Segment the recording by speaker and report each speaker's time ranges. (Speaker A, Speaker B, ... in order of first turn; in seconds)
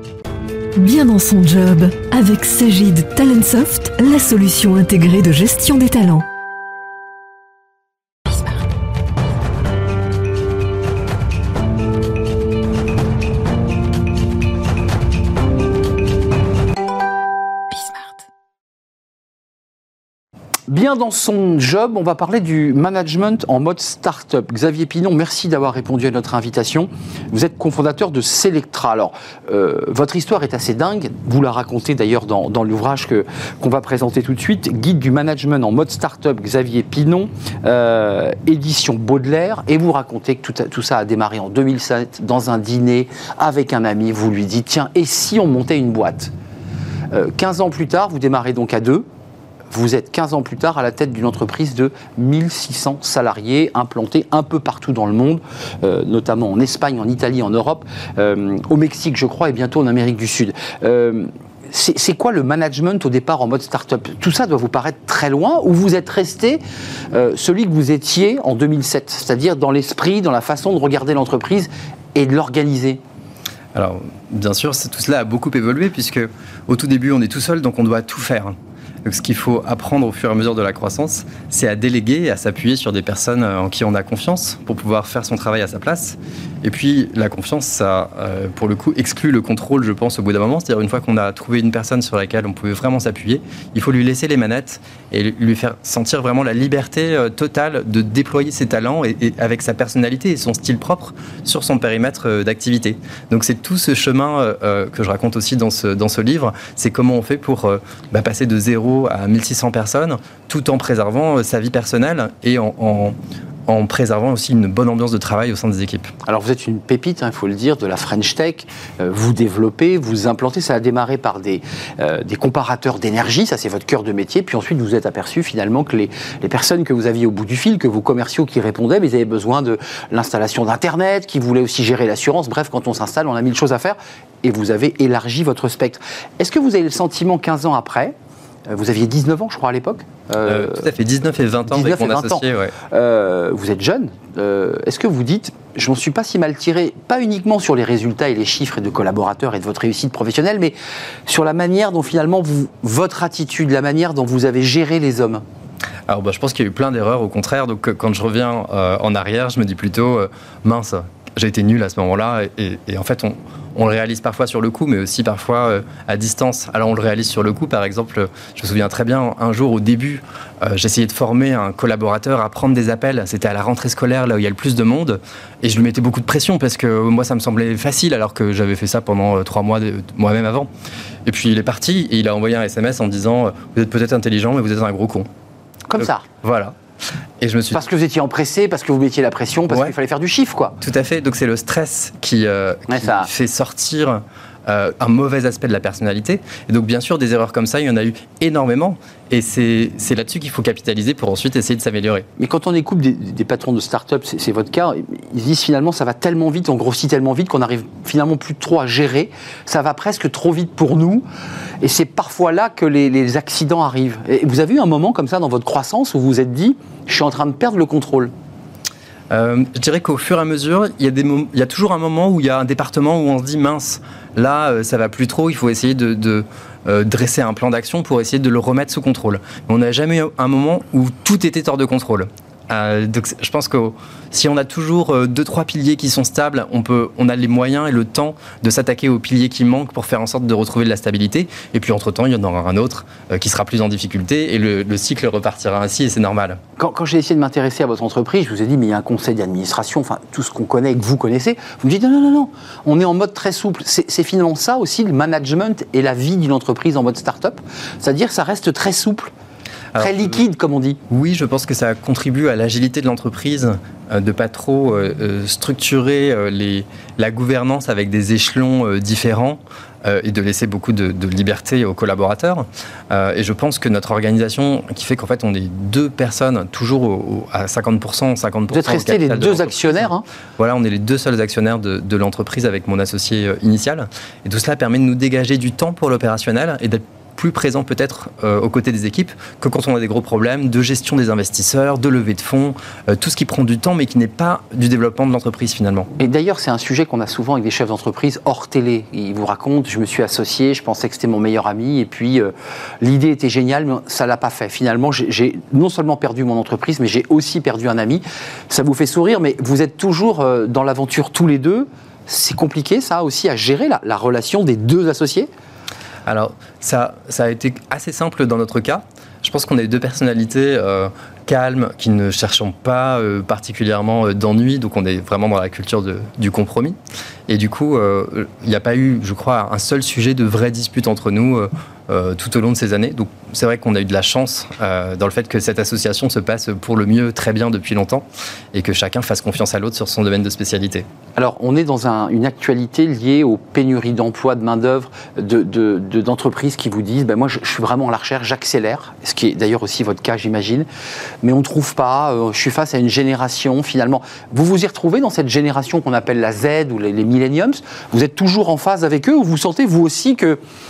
Speaker A: 0.8-6.2
Speaker B: 20.7-46.3, 47.1-49.0, 49.7-73.0, 116.2-138.1, 138.7-140.9, 141.7-150.7, 151.3-155.4, 185.9-186.2, 187.7-190.8, 192.9-193.3, 202.4-211.2, 211.8-218.3, 246.8-259.3, 260.0-261.0, 278.7-280.2, 296.2-315.5, 341.4-350.9, 351.4-360.6
Speaker C: 73.7-113.2, 113.7-116.1, 140.4-142.7, 156.1-180.7, 181.2-185.3, 186.0-186.7, 187.4-187.8, 190.8-202.3, 219.3-246.6, 259.9-260.4, 261.1-280.1, 280.6-296.1, 316.2-327.0, 327.5-341.0